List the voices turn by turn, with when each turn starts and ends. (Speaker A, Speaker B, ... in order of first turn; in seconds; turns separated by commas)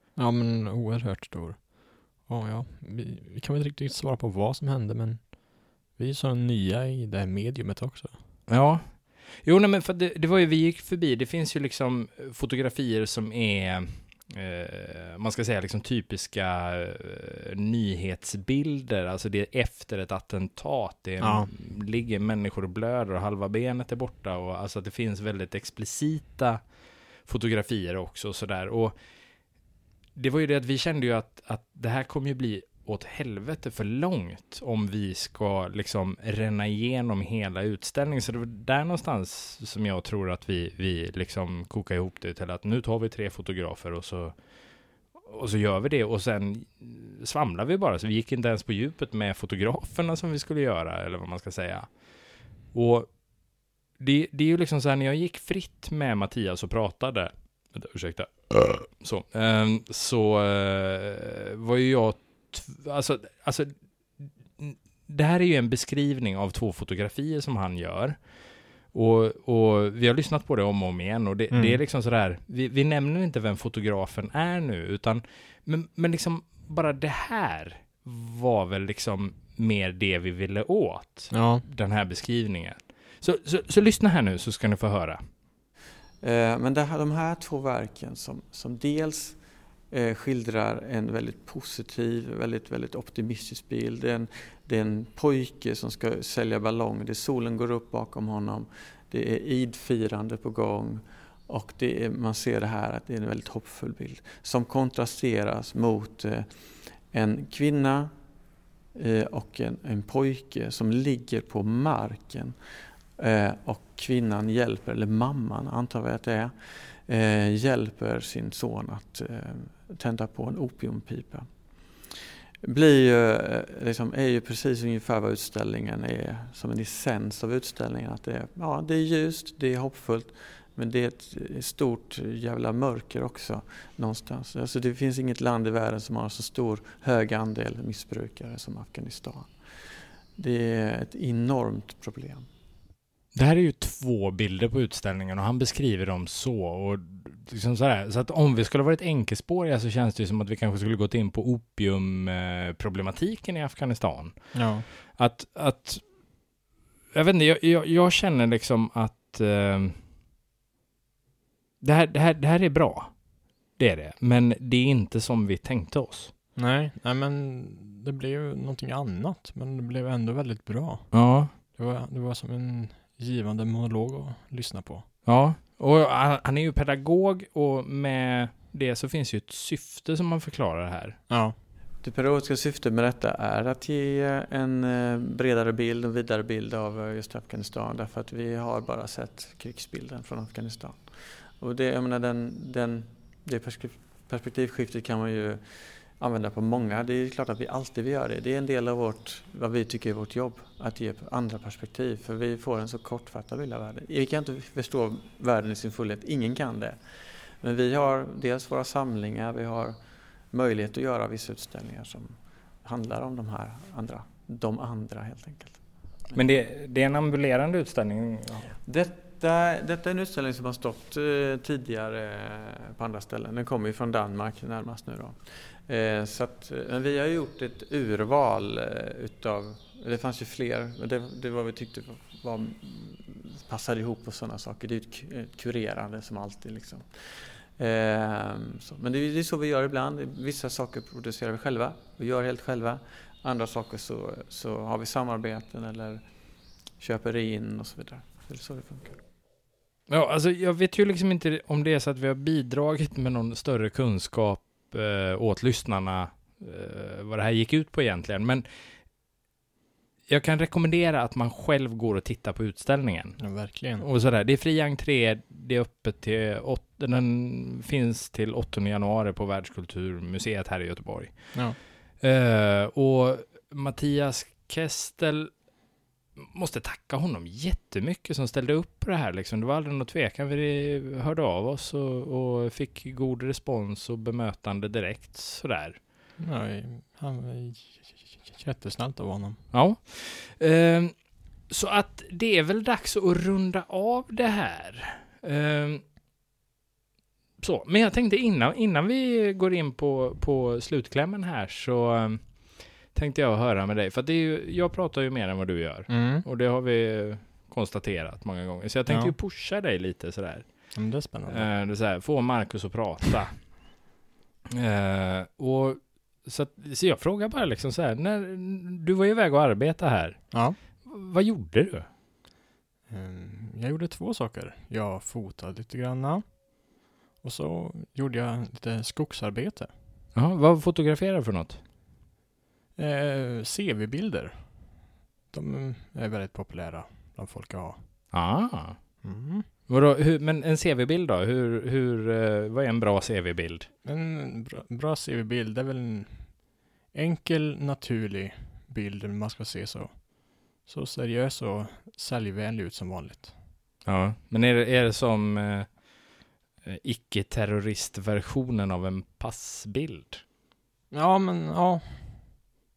Speaker A: 0.2-8.2, Speaker B: 8.5-29.0, Speaker A: 21.2-21.5, Speaker B: 30.1-85.2, Speaker A: 71.5-71.8, Speaker A: 81.3-81.7, Speaker C: 86.2-106.5, Speaker C: 107.1-108.1, Speaker C: 109.0-112.6, Speaker C: 113.2-121.5, Speaker C: 122.1-139.6, Speaker C: 140.3-142.5, Speaker B: 143.3-156.4, Speaker A: 154.5-154.9, Speaker B: 157.1-160.0, Speaker B: 161.8-166.3, Speaker A: 166.6-175.1, Speaker B: 171.1-171.5, Speaker B: 175.2-181.2, Speaker A: 181.3-181.6, Speaker C: 182.0-207.0, Speaker C: 207.5-210.0, Speaker C: 210.5-216.4, Speaker B: 216.3-218.7, Speaker C: 218.8-246.3, Speaker C: 247.0-249.2, Speaker B: 250.1-259.0, Speaker B: 260.3-275.6, Speaker A: 263.4-264.1, Speaker B: 276.4-286.0, Speaker A: 286.4-289.7, Speaker B: 289.7-296.1, Speaker B: 297.6-314.1, Speaker A: 306.1-306.5, Speaker A: 309.1-309.4, Speaker A: 310.9-311.7, Speaker B: 314.8-322.1, Speaker A: 320.5-320.8, Speaker A: 323.1-329.9, Speaker B: 330.3-331.8, Speaker A: 333.0-338.3, Speaker B: 338.3-343.9, Speaker A: 339.2-339.7, Speaker A: 344.0-353.6, Speaker B: 354.1-360.4, Speaker A: 361.1-362.7